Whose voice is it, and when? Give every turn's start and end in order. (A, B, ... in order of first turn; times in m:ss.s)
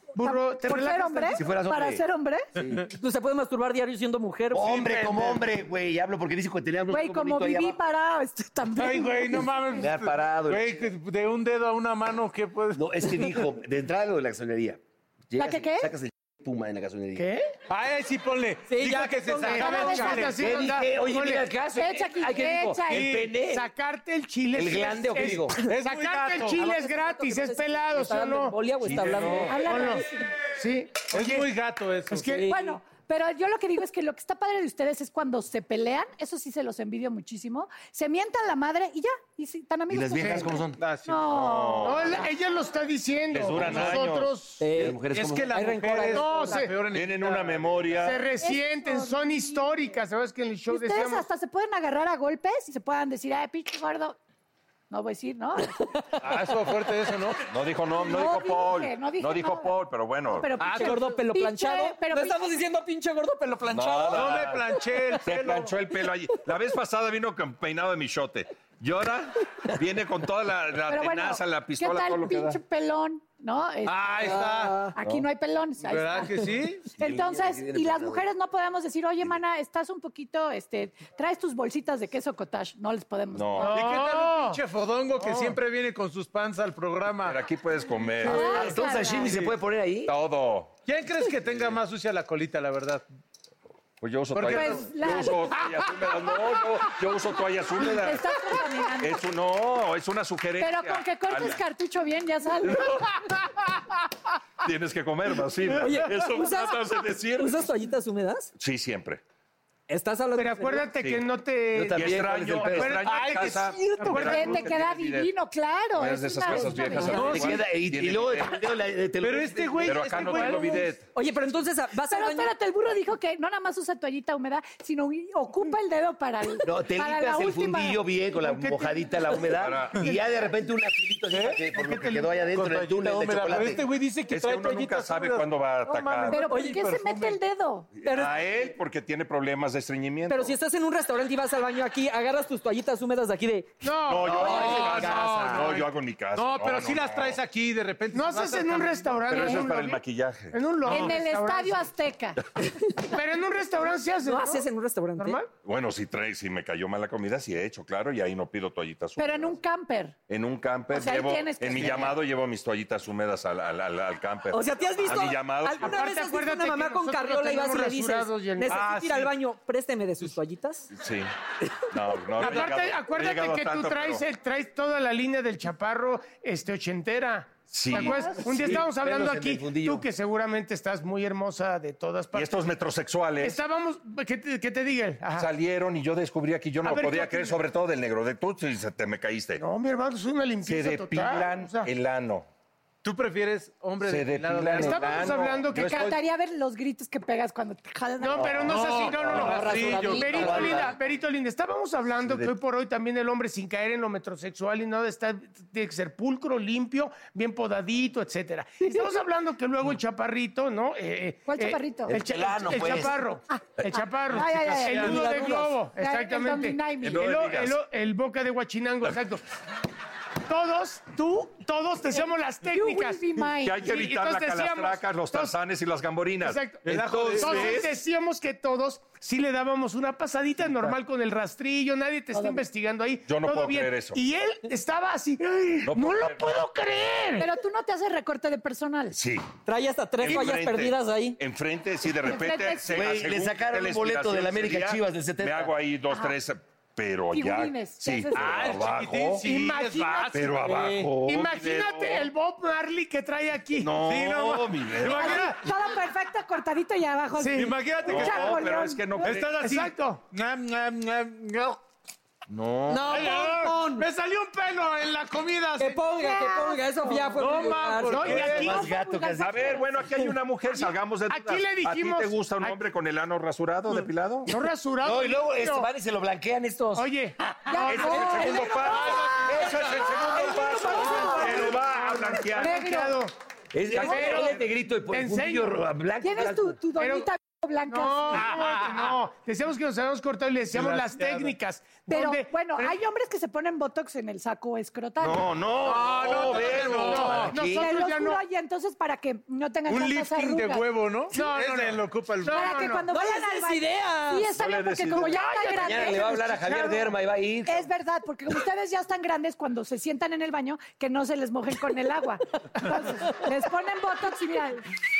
0:00.2-0:01.5 A
0:00.2-0:02.5 B
0:01.3-0:02.0 C
0:02.5-0:02.8 C
0:02.9-0:04.9 D
0:04.5-0:07.8 C
0:04.6-0:05.4 E
0:06.9-0:09.5 B
0:08.8-0:13.4 E
0:09.8-0:10.9 C
0:12.8-0:17.3 C
0:15.4-0:15.9 B
0:17.2-0:17.5 A
0:17.7-0:20.4 E
0:18.7-0:20.3 D
0:19.5-0:21.5 A
0:19.5-0:20.2 B
0:20.3-0:23.7 C
0:21.8-0:23.1 B
0:22.9-0:23.4 E
0:23.3-0:31.5 A
0:24.5-0:25.6 C
0:25.5-0:26.6 E
0:26.5-0:29.9 D
0:28.8-0:29.4 C
0:29.5-0:30.2 B
0:31.1-0:32.3 E
0:32.1-0:32.5 A
0:32.3-0:32.6 D
0:32.4-0:42.2 B
0:39.9-0:40.8 C
0:40.2-0:40.6 A
0:40.8-0:41.4 E
0:41.2-0:42.3 F
0:41.8-0:44.6 A
0:43.3-0:44.4 F
0:44.6-0:46.6 D
0:44.7-0:45.6 C
0:45.1-0:47.9 E
0:46.1-0:46.8 A
0:46.9-0:48.3 F
0:48.0-0:51.2 A
0:48.4-0:49.8 B
0:50.7-0:54.2 B
0:54.9-0:55.8 B
0:56.2-0:57.5 E
0:57.5-1:00.5 F
0:58.0-0:59.7 B
1:00.3-1:02.5 B
1:00.6-1:04.6 D
1:00.6-1:01.0 E
1:03.7-1:12.6 F
1:04.1-1:05.8 E
1:10.9-1:14.4 B
1:13.8-1:14.9 E
1:14.2-1:14.9 D
1:14.9-1:23.7 B
1:15.0-1:15.2 F
1:15.8-1:16.9 E
1:17.0-1:18.3 C
1:23.3-1:23.8 F
1:23.6-1:24.6 A
1:23.7-1:27.4 E
1:25.2-1:25.6 A
1:27.2-1:28.6 F
1:28.2-1:29.4 B
1:28.2-1:30.1 C
1:29.2-1:29.5 F
1:30.0-1:30.8 F
1:30.8-1:33.0 E
1:31.4-1:31.8 F
1:34.0-1:38.3 F
1:34.3-1:35.4 E
1:34.4-1:35.6 B
1:37.8-1:39.2 B
1:39.0-1:41.6 F
1:40.6-1:42.9 B
1:42.6-1:43.3 F
1:44.6-1:47.5 F
1:45.8-1:48.5 D
1:48.6-1:49.2 F
1:49.9-1:50.9 D
1:50.3-1:54.6 A
1:51.0-1:51.2 F
1:51.7-1:53.2 C
1:51.9-1:55.3 F
1:53.1-1:54.4 E
1:54.1-1:57.4 B
1:55.9-1:58.6 F
1:56.8-1:57.6 E
1:57.1-1:57.3 D
1:57.2-2:00.3 C
1:59.2-2:00.9 E
1:59.8-2:01.0 F
2:01.1-2:02.5 D
2:02.1-2:08.0 B
2:06.6-2:13.8 C
2:08.4-2:09.4 A
2:09.4-2:09.9 F
2:11.3-2:11.7 E
2:11.8-2:12.2 A
2:12.5-2:17.4 E
2:14.3-2:16.4 F
2:16.3-2:17.9 B
2:16.5-2:16.8 D
2:18.0-2:20.6 F
2:18.0-2:18.3 D
2:20.3-2:23.8 D
2:23.8-2:25.3 A
2:24.0-2:27.4 F
2:24.2-2:25.8 C
2:24.4-2:25.8 E
2:26.3-2:29.4 E
2:28.1-2:31.9 A
2:29.3-2:31.2 F
2:30.9-2:32.4 B
2:33.1-2:34.6 A
2:34.2-2:35.4 D
2:35.2-2:35.5 A
2:35.6-2:39.6 F
2:39.2-2:40.2 B
2:40.3-2:46.0 F
2:40.9-2:42.2 B
2:44.5-2:50.9 D
2:45.8-2:48.9 A
2:48.7-2:49.3 E
2:50.9-2:51.3 F
2:51.9-2:54.2 F
2:52.4-3:02.6 A
2:57.7-2:58.2 F
2:57.9-2:58.4 B
2:58.4-3:00.0 C
3:02.3-3:03.6 F
3:03.4-3:05.5 A
3:05.3-3:09.6 F
3:06.8-3:07.6 A
3:09.6-3:11.9 A
3:10.6-3:12.4 F
3:13.0-3:15.4 E
3:14.0-3:16.2 F
3:14.8-3:16.1 A
3:15.7-3:18.6 B
3:18.2-3:39.4 A
3:18.4-3:20.9 C
3:18.6-3:20.8 E
3:19.3-3:20.8 D
3:22.2-3:22.5 C
3:31.5-3:32.2 B
3:32.1-3:33.2 C
3:32.7-3:33.6 B
3:34.3-3:37.2 B
3:35.0-3:35.7 D
3:37.0-3:37.8 F
3:40.4-3:43.2 A
3:42.6-3:43.8 B
3:43.6-3:47.9 F
3:43.8-3:45.5 A
3:46.4-3:57.5 A
3:46.8-3:47.9 E
3:52.3-3:52.6 B
3:53.3-3:54.2 F
3:55.8-3:56.6 F
3:57.4-3:59.2 B
3:59.1-3:59.6 F
3:59.6-4:01.4 D
4:00.2-4:09.5 F
4:02.2-4:03.0 B
4:02.9-4:05.7 C
4:07.3-4:08.8 B
4:08.3-4:11.1 E
4:09.4-4:10.3 A
4:10.3-4:12.3 F
4:10.7-4:11.1 D
4:11.2-4:13.9 A
4:13.8-4:15.5 F
4:14.0-4:15.6 E
4:15.0-4:19.3 B
4:17.4-4:17.8 A
4:17.5-4:18.6 E
4:18.0-4:19.5 F
4:19.2-4:21.8 E
4:19.6-4:20.2 A
4:22.5-4:23.3 F
4:22.9-4:24.0 D
4:23.0-4:26.0 E
4:25.8-4:28.3 D
4:26.0-4:27.3 B
4:27.3-4:28.8 E
4:28.1-4:28.9 A
4:28.2-4:29.8 B
4:28.2-4:29.9 C
4:29.4-4:34.5 F
4:30.8-4:32.8 A
4:34.5-4:35.9 A
4:35.0-4:37.1 C
4:36.9-4:38.5 A
4:37.7-4:41.8 B
4:37.8-4:38.1 C
4:37.9-4:42.9 F
4:39.2-4:40.5 E
4:39.5-4:40.0 C
4:41.1-4:43.3 A
4:42.6-4:43.2 B
4:43.7-4:46.8 C
4:43.9-4:45.8 A
4:43.9-4:44.5 B
4:44.0-4:44.5 F
4:46.2-4:48.5 B
4:47.0-4:47.3 A
4:47.9-4:52.9 A
4:48.3-4:49.1 E
4:50.7-4:51.5 E
4:52.1-4:55.5 B
4:55.2-4:57.5 F
4:55.8-4:57.5 E
4:56.2-4:58.4 A
4:57.5-4:57.8 C
4:57.5-5:01.4 B
4:59.9-5:02.7 E
5:01.3-5:03.0 A
5:02.5-5:07.1 B
5:03.1-5:04.5 D
5:04.5-5:05.5 F
5:05.2-5:06.3 A
5:05.8-5:07.9 C
5:07.6-5:14.8 B